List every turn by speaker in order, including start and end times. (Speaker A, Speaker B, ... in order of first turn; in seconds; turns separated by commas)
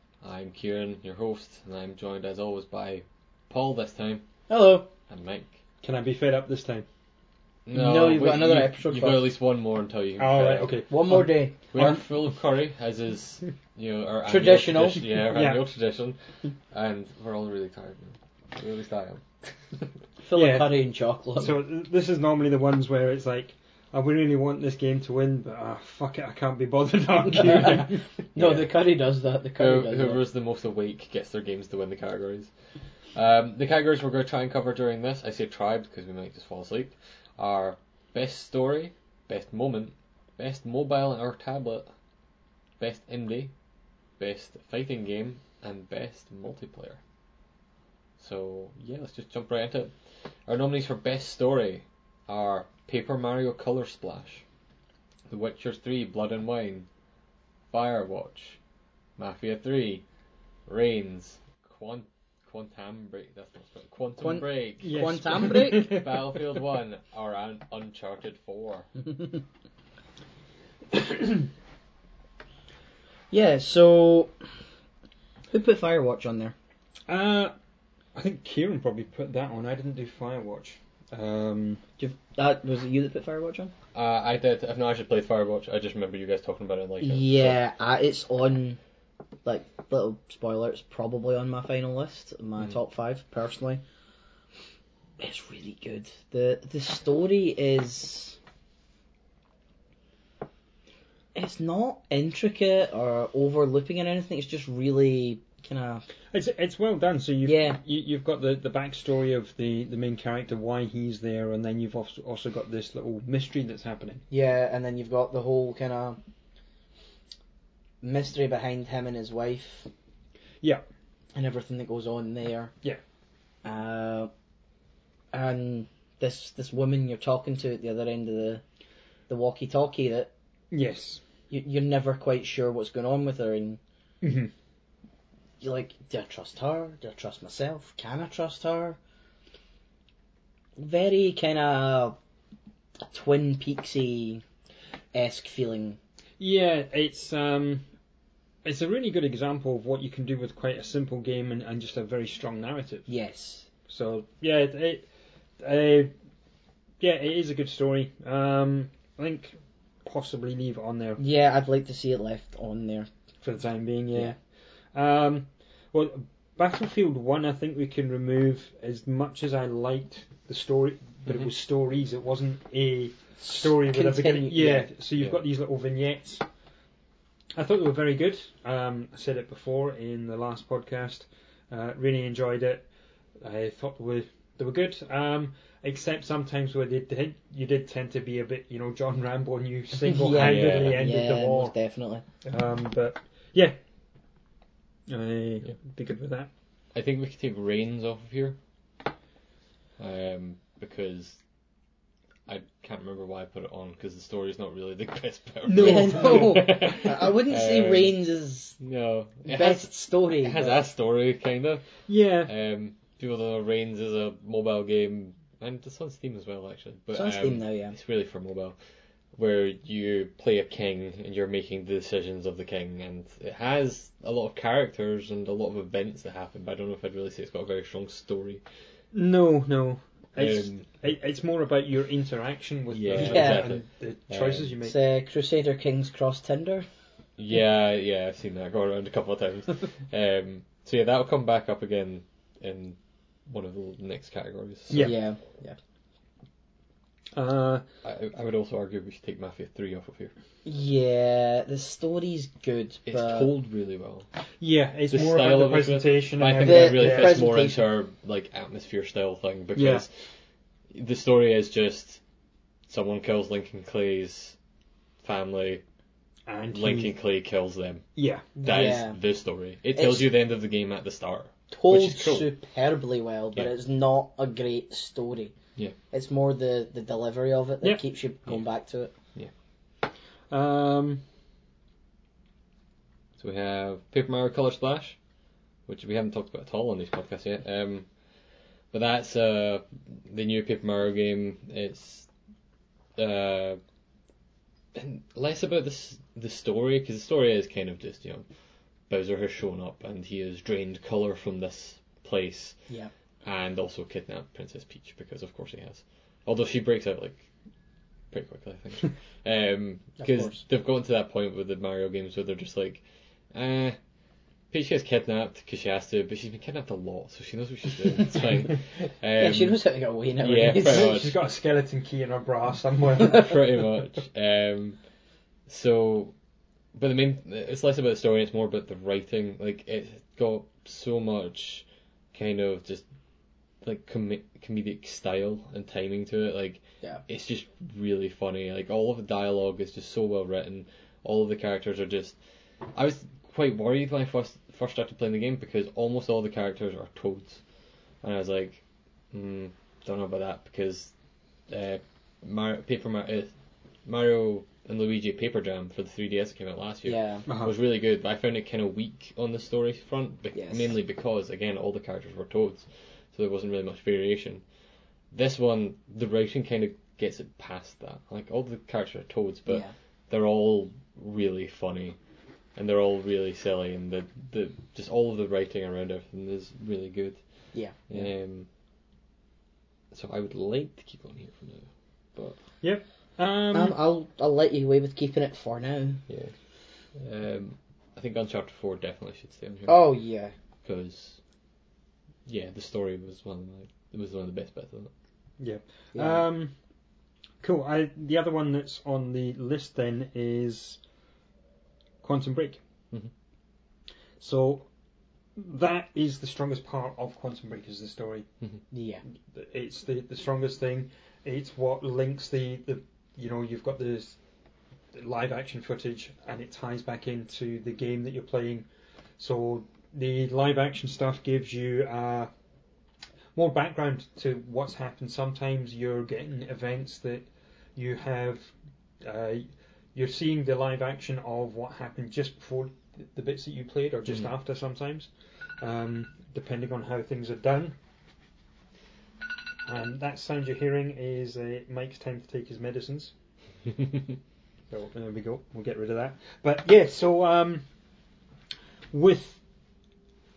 Speaker A: 0.2-4.3, Speaker B: 4.5-4.9, Speaker A: 5.1-5.5, Speaker C: 5.8-6.8, Speaker A: 7.7-10.8, Speaker B: 7.7-9.3, Speaker C: 10.2-12.2, Speaker B: 10.9-11.5, Speaker A: 11.7-19.2, Speaker B: 14.3-15.1, Speaker C: 15.3-15.7, Speaker B: 20.2-21.6, Speaker C: 20.3-20.8, Speaker C: 21.4-28.1, Speaker B: 27.3-30.2, Speaker A: 27.4-28.6, Speaker A: 29.6-41.9, Speaker A: 42.8-43.5, Speaker A: 44.2-47.0, Speaker A: 48.2-49.9, Speaker A: 50.5-54.4, Speaker A: 55.3-56.9, Speaker A: 57.7-58.6, Speaker A: 59.2-60.0, Speaker A: 60.7-68.9, Speaker B: 64.2-66.0, Speaker C: 64.8-66.4, Speaker C: 70.9-71.5, Speaker B: 73.3-74.3, Speaker B: 75.5-76.5, Speaker C: 77.1-77.5, Speaker C: 78.1-81.9, Speaker B: 82.0-83.7, Speaker A: 83.9-87.6, Speaker B: 87.0-88.8, Speaker B: 89.4-93.8, Speaker B: 95.2-98.4, Speaker B: 101.3-106.1, Speaker C: 106.3-114.2, Speaker B: 107.4-107.8, Speaker B: 114.3-116.2, Speaker B: 118.0-119.9, Speaker B: 121.3-122.7, Speaker B: 123.6-124.3, Speaker B: 125.3-128.6, Speaker B: 129.3-130.3, Speaker C: 130.7-131.2, Speaker B: 131.5-133.8, Speaker C: 134.2-134.5, Speaker B: 135.6-139.0, Speaker B: 140.8-142.2, Speaker B: 143.1-144.4, Speaker B: 145.1-146.0, Speaker C: 146.4-147.8, Speaker C: 148.6-153.1, Speaker B: 153.1-153.7, Speaker C: 153.9-155.1, Speaker C: 155.6-156.1, Speaker C: 157.0-161.2, Speaker B: 161.2-163.1, Speaker C: 163.4-164.4, Speaker C: 164.9-176.4, Speaker B: 173.4-174.9, Speaker C: 177.5-182.9, Speaker C: 183.4-191.8, Speaker B: 190.0-192.2, Speaker A: 190.3-191.1, Speaker C: 192.4-193.8, Speaker C: 195.1-196.5, Speaker A: 196.9-198.6, Speaker A: 200.0-201.4, Speaker A: 202.4-208.2, Speaker C: 205.6-207.1, Speaker B: 205.8-208.8, Speaker A: 208.8-218.8, Speaker B: 209.5-210.8, Speaker C: 212.1-212.5, Speaker B: 217.1-217.9, Speaker A: 219.3-228.6, Speaker C: 229.1-234.9, Speaker A: 230.4-230.9, Speaker A: 232.9-234.7, Speaker B: 233.1-233.7, Speaker B: 234.8-236.8, Speaker A: 237.4-245.1, Speaker C: 244.9-245.2, Speaker B: 244.9-245.8, Speaker C: 247.3-247.8, Speaker A: 248.0-250.3, Speaker B: 250.6-253.5, Speaker A: 253.1-254.3, Speaker C: 254.6-257.4, Speaker A: 255.1-260.3, Speaker B: 256.6-257.9, Speaker C: 259.7-260.1, Speaker A: 260.9-262.2, Speaker A: 262.9-264.6, Speaker A: 265.2-265.8, Speaker C: 266.4-267.1, Speaker A: 266.7-268.1, Speaker C: 268.1-268.5, Speaker B: 268.6-269.2, Speaker A: 268.6-272.5, Speaker B: 269.9-270.3, Speaker B: 271.7-275.5, Speaker B: 276.1-279.1, Speaker C: 280.5-281.2, Speaker A: 283.4-285.2, Speaker A: 285.9-288.3, Speaker A: 288.9-292.3, Speaker A: 293.1-293.8, Speaker A: 294.9-298.4, Speaker A: 299.1-302.8, Speaker A: 303.4-307.5, Speaker A: 308.3-314.0, Speaker B: 310.2-310.6, Speaker A: 314.7-319.8, Speaker B: 319.4-321.2, Speaker A: 320.4-321.3, Speaker C: 320.8-323.7, Speaker A: 323.3-325.0, Speaker A: 325.7-326.3, Speaker A: 326.9-333.0, Speaker A: 333.8-342.4, Speaker A: 342.9-347.6, Speaker A: 348.2-351.1, Speaker A: 351.7-353.5, Speaker A: 354.0-364.6, Speaker B: 357.0-357.4, Speaker C: 357.4-357.7, Speaker B: 360.5-360.9, Speaker A: 365.3-372.2, Speaker B: 369.7-369.9, Speaker A: 372.7-378.7, Speaker B: 377.7-378.3, Speaker A: 380.1-382.6, Speaker C: 382.8-384.0, Speaker B: 383.7-386.2, Speaker A: 386.3-386.5, Speaker A: 387.1-390.2, Speaker B: 389.9-390.5, Speaker A: 390.8-391.4, Speaker A: 392.4-395.1, Speaker C: 395.6-396.7, Speaker B: 396.1-396.4, Speaker C: 397.6-401.0, Speaker C: 402.2-402.8, Speaker C: 404.4-404.9, Speaker C: 405.6-408.5, Speaker B: 408.9-409.2, Speaker C: 409.5-414.4, Speaker C: 415.1-418.9, Speaker C: 419.4-422.5, Speaker C: 423.5-437.9, Speaker C: 439.9-443.3, Speaker C: 444.9-447.9, Speaker C: 449.1-449.6